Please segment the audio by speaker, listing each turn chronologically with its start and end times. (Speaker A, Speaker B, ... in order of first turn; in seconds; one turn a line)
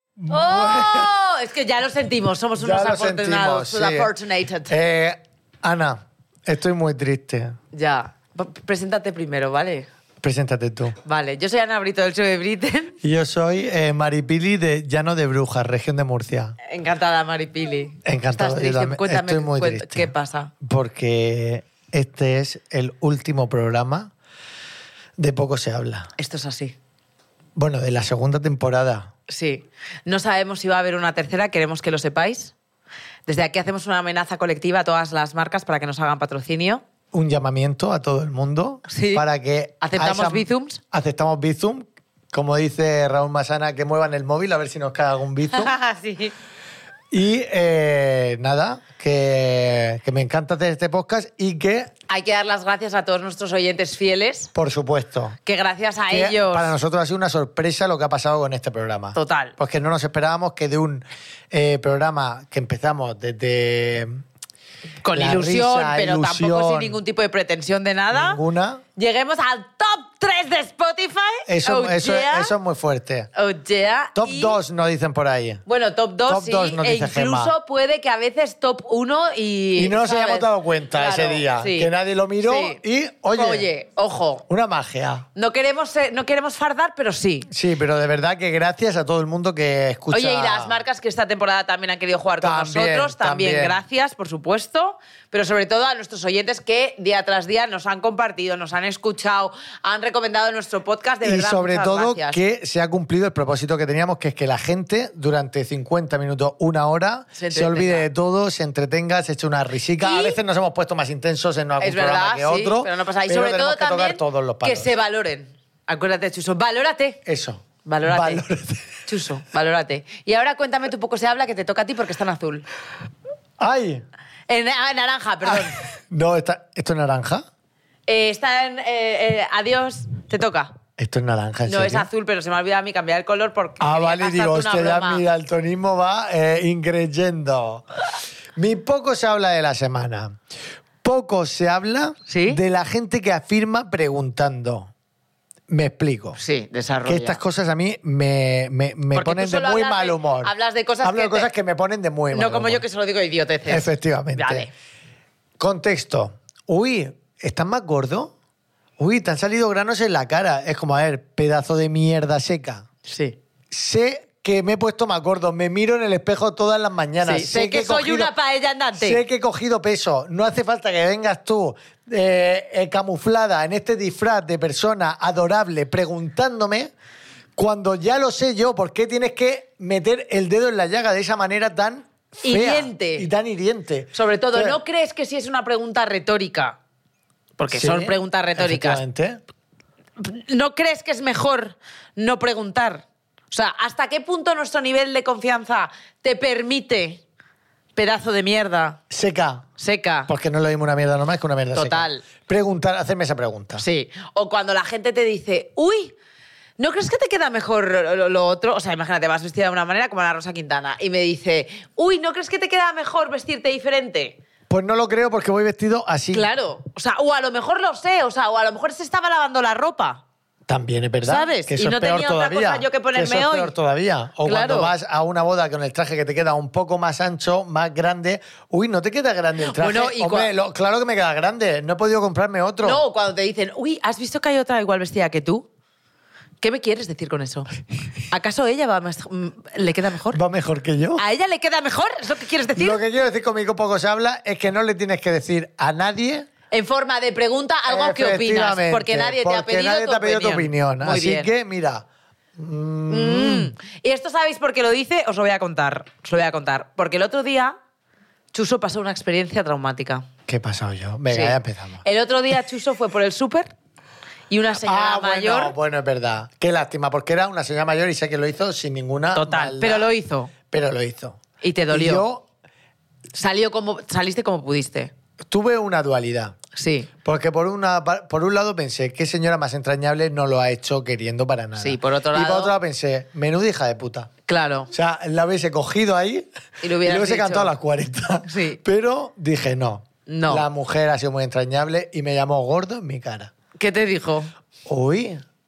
Speaker A: 0.2-1.1
Speaker B: 0.3-4.7
Speaker A: 2.6-4.1
Speaker A: 4.7-7.6
Speaker B: 7.7-9.9
Speaker A: 10.2-11.0
Speaker B: 11.0-12.9
Speaker A: 13.0-16.6
Speaker B: 16.6-20.5
Speaker A: 18.0-24.1
Speaker A: 25.2-26.1
Speaker B: 26.2-26.7
Speaker A: 27.6-29.1
Speaker B: 29.3-32.5
Speaker B: 33.3-36.8
Speaker A: 37.1-45.7
Speaker B: 38.9-39.2
Speaker B: 39.8-40.8
Speaker B: 45.5-46.3
Speaker A: 47.1-51.9
Speaker B: 52.1-54.5
Speaker A: 54.5-55.4
Speaker B: 55.5-56.7
Speaker A: 56.1-64.2
Speaker B: 59.1-59.5
Speaker B: 65.0-68.4
Speaker A: 65.0-67.0
Speaker A: 68.1-68.8
Speaker B: 69.0-72.5
Speaker A: 71.5-73.3
Speaker B: 73.3-74.6
Speaker A: 74.1-75.6
Speaker B: 75.7-81.9
Speaker A: 76.3-77.5
Speaker A: 79.7-83.7
Speaker B: 82.4-82.8
Speaker B: 83.3-84.4
Speaker A: 84.5-85.3
Speaker B: 85.3-87.5
Speaker A: 87.5-90.8
Speaker B: 90.1-102.4
Speaker A: 92.4-93.8
Speaker A: 101.2-114.9
Speaker B: 107.4-108.1
Speaker B: 110.0-110.4
Speaker B: 111.8-117.2
Speaker A: 117.2-119.0
Speaker B: 117.8-118.4
Speaker B: 119.0-122.7
Speaker A: 123.6-124.0
Speaker B: 124.5-125.8
Speaker A: 125.5-127.5
Speaker B: 128.1-130.7
Speaker A: 131.0-132.1
Speaker B: 131.7-135.2
Speaker A: 133.8-137.8
Speaker A: 138.6-140.4
Speaker A: 141.0-144.9
Speaker B: 142.3-142.6
Speaker A: 145.7-146.4
Speaker B: 146.4-147.4
Speaker A: 147.0-152.8
Speaker B: 149.1-151.5
Speaker B: 152.3-154.7
Speaker A: 153.7-154.7
Speaker A: 155.6-158.3
Speaker A: 159.0-162.9
Speaker B: 163.1-163.4
Speaker A: 163.7-168.3
Speaker B: 167.2-169.2
Speaker A: 168.9-176.9
Speaker A: 177.6-184.8
Speaker B: 182.4-183.3
Speaker B: 184.1-186.8
Speaker B: 187.6-189.0
Speaker A: 187.7-189.4
Speaker B: 190.2-197.2
Speaker B: 197.9-199.0
Speaker A: 199.1-199.7
Speaker B: 199.8-200.3
Speaker A: 200.3-203.8
Speaker B: 201.7-202.2
Speaker B: 203.8-206.1
Speaker B: 206.8-214.4
Speaker A: 214.7-216.5
Speaker B: 216.3-220.2
Speaker A: 220.7-233.0
Speaker B: 221.2-223.7
Speaker B: 224.4-224.9
Speaker B: 229.6-230.5
Speaker B: 232.8-235.7
Speaker B: 236.6-240.4
Speaker A: 240.3-241.2
Speaker B: 241.2-243.0
Speaker A: 242.7-246.5
Speaker B: 246.7-251.5
Speaker A: 247.9-253.7
Speaker B: 253.1-257.7
Speaker B: 258.5-260.3
Speaker A: 260.5-262.0
Speaker B: 261.3-263.7
Speaker B: 264.5-265.7
Speaker A: 264.8-270.1
Speaker B: 269.3-270.5
Speaker A: 270.6-272.4
Speaker B: 271.6-272.2
Speaker B: 273.3-275.1
Speaker A: 275.4-276.6
Speaker B: 276.8-277.1
Speaker A: 277.2-284.3
Speaker B: 281.8-282.7
Speaker B: 284.5-284.9
Speaker A: 284.9-293.5
Speaker B: 286.8-287.7
Speaker B: 288.5-288.8
Speaker B: 290.3-290.6
Speaker B: 293.8-294.5
Speaker A: 294.9-295.4